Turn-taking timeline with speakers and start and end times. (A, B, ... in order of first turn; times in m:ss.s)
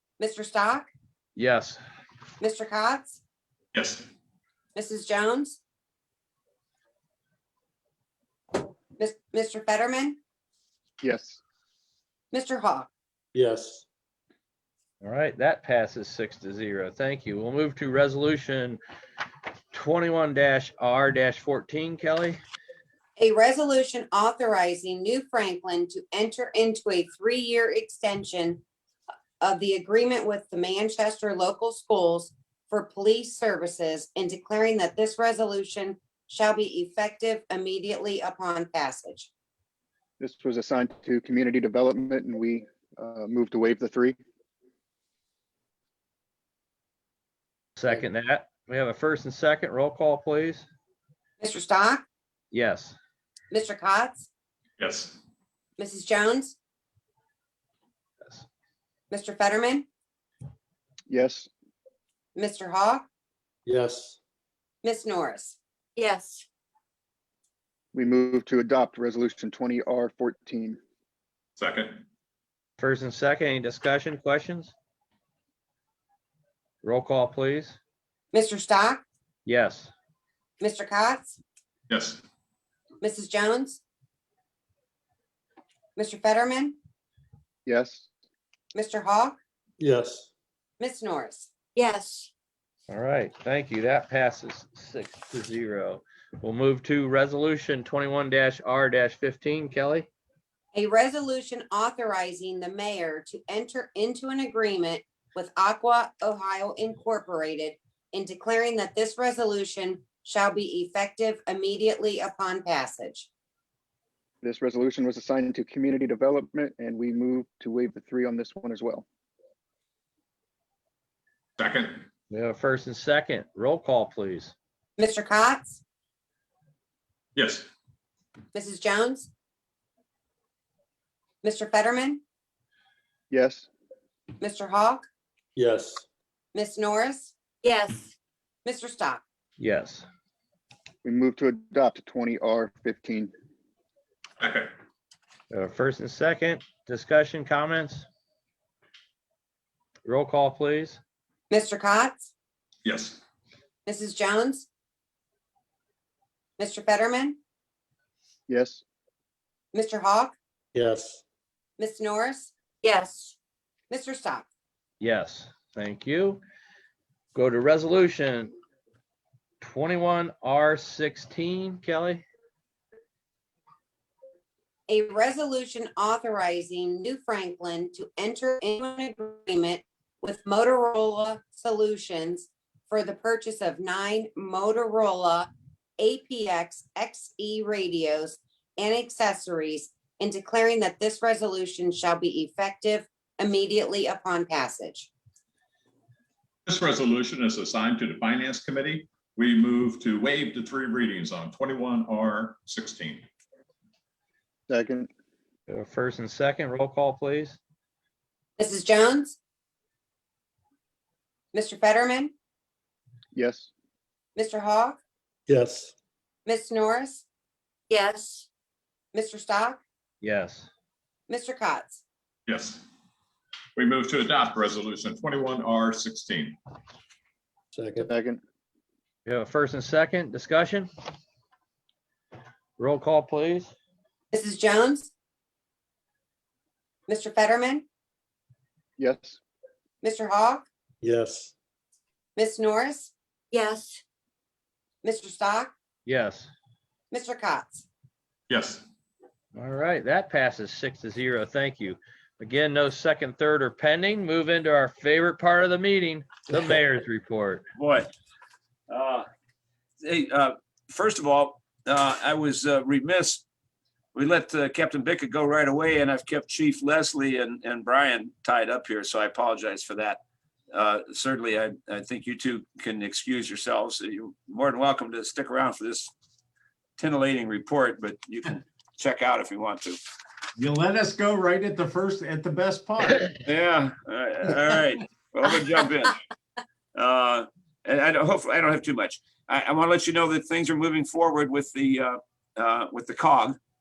0:00.2-0:00.9 A
0:01.4-0:01.8 B
0:02.4-0:03.2 A
0:03.7-0:04.0 C
0:04.7-0:05.6 A
0:09.0-0:10.2 A
0:11.0-0:11.4 D
0:12.3-0:12.9 A
0:13.3-0:13.8 E
0:15.0-0:18.8 B
0:19.7-0:22.4 B
0:23.2-0:28.6 A
0:29.4-0:39.3 A
0:40.2-0:44.2 D
0:47.8-0:50.7 B
0:51.4-0:52.0 A
0:52.5-0:53.0 B
0:53.5-0:54.3 A
0:54.8-0:55.2 C
0:55.8-0:56.6 A
0:59.1-0:59.8 A
1:01.1-1:01.5 D
1:02.3-1:03.0 A
1:03.6-1:04.2 E
1:04.8-1:05.6 A
1:06.0-1:06.4 F
1:07.9-1:10.8 D
1:11.6-1:12.0 C
1:12.8-1:14.7 B
1:16.8-1:17.8 B
1:18.3-1:19.0 A
1:19.4-1:19.9 B
1:20.6-1:21.4 A
1:21.9-1:22.2 C
1:23.0-1:23.8 A
1:26.0-1:26.8 A
1:27.6-1:28.1 D
1:28.7-1:29.4 A
1:29.8-1:30.3 E
1:30.8-1:31.5 A
1:31.7-1:32.3 F
1:32.9-1:40.1 B
1:40.7-1:53.3 A
1:54.4-1:59.0 D
2:01.6-2:02.0 C
2:02.3-2:04.5 B
2:05.0-2:05.8 A
2:07.3-2:07.7 C
2:08.5-2:09.3 A
2:11.4-2:12.2 A
2:13.3-2:13.7 D
2:14.4-2:15.0 A
2:15.6-2:16.0 E
2:16.5-2:17.3 A
2:17.6-2:18.1 F
2:18.6-2:19.2 A
2:19.6-2:20.1 B
2:21.0-2:23.3 D
2:24.4-2:24.7 C
2:25.5-2:28.1 B
2:30.0-2:31.0 B
2:31.5-2:32.3 A
2:32.8-2:33.2 C
2:33.8-2:34.7 A
2:36.6-2:37.4 A
2:38.5-2:38.8 D
2:39.7-2:40.4 A
2:40.7-2:41.2 E
2:41.8-2:42.5 A
2:42.8-2:43.3 F
2:43.9-2:44.5 A
2:45.0-2:46.4 B
2:47.3-2:48.5 B
2:49.6-2:52.2 B
2:54.9-3:15.1 A
3:16.6-3:23.2 C
3:24.7-3:25.1 D
3:25.7-3:27.6 B
3:28.6-3:29.4 A
3:31.5-3:32.3 A
3:33.3-3:33.7 D
3:34.4-3:35.0 A
3:35.5-3:35.9 E
3:36.4-3:37.2 A
3:37.9-3:38.5 F
3:39.1-3:39.8 A
3:40.2-3:40.7 B
3:41.3-3:42.0 A
3:42.5-3:42.8 C
3:43.8-3:46.6 C
3:47.7-3:48.1 E
3:48.0-3:48.4 D
3:49.2-3:50.9 B
3:52.8-3:53.7 B
3:54.3-3:55.1 A
3:57.1-3:57.8 A
3:59.0-3:59.4 D
4:00.0-4:00.6 A
4:01.0-4:01.5 E
4:02.4-4:03.1 A
4:03.5-4:04.0 F
4:05.0-4:05.7 A
4:06.0-4:06.5 B
4:07.1-4:07.8 A
4:08.5-4:08.8 C
4:09.5-4:17.6 B
4:17.8-4:18.1 G
4:18.9-4:19.3 G
4:20.0-4:23.4 G
4:24.1-4:30.2 G
4:30.7-4:36.1 G
4:37.0-4:40.0 G
4:40.6-4:43.3 H
4:43.3-4:46.2 G
4:46.9-4:53.6 G